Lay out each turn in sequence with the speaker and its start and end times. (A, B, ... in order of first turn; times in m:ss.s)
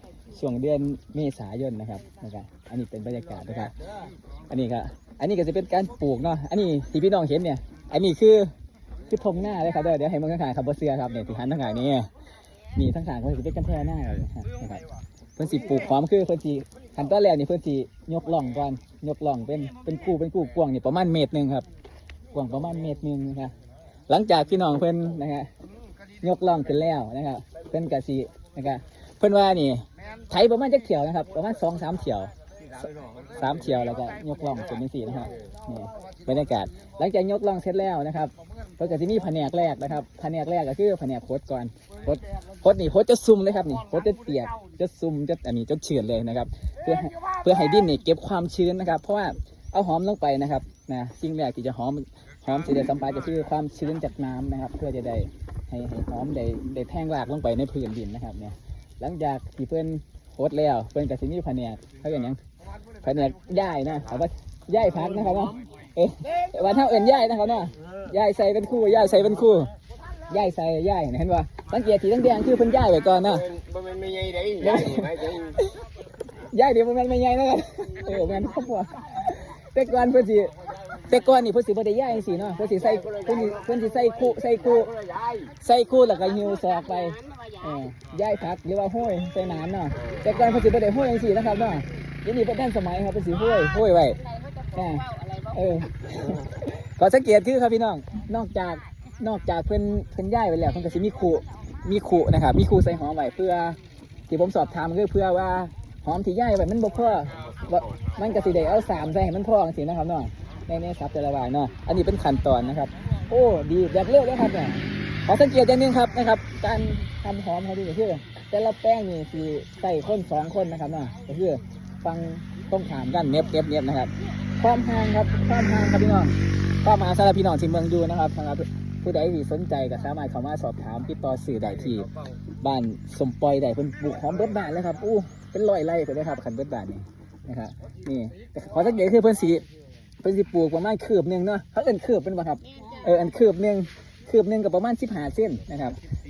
0:00.3-0:03.8 A
0:04.5-0:08.5 A
0:09.1-0:12.1 A
0:12.8-0:14.8 A
0:15.4-0:21.7 A
0:22.3-0:23.6 A
0:24.1-0:25.5 A
0:26.2-0:32.3 A
0:32.8-1:02.4 A
1:03.0-1:09.7 A
1:10.3-1:13.6 A
1:13.6-1:15.0 B
1:14.5-1:15.8 A
1:16.3-1:25.0 A
1:25.0-1:25.5 B
1:25.6-1:34.2 A
1:27.1-1:27.6 B
1:34.2-1:35.5 B
1:34.7-1:43.8 A
1:44.3-2:19.6 A
2:20.2-2:26.0 A
2:22.7-2:23.0 B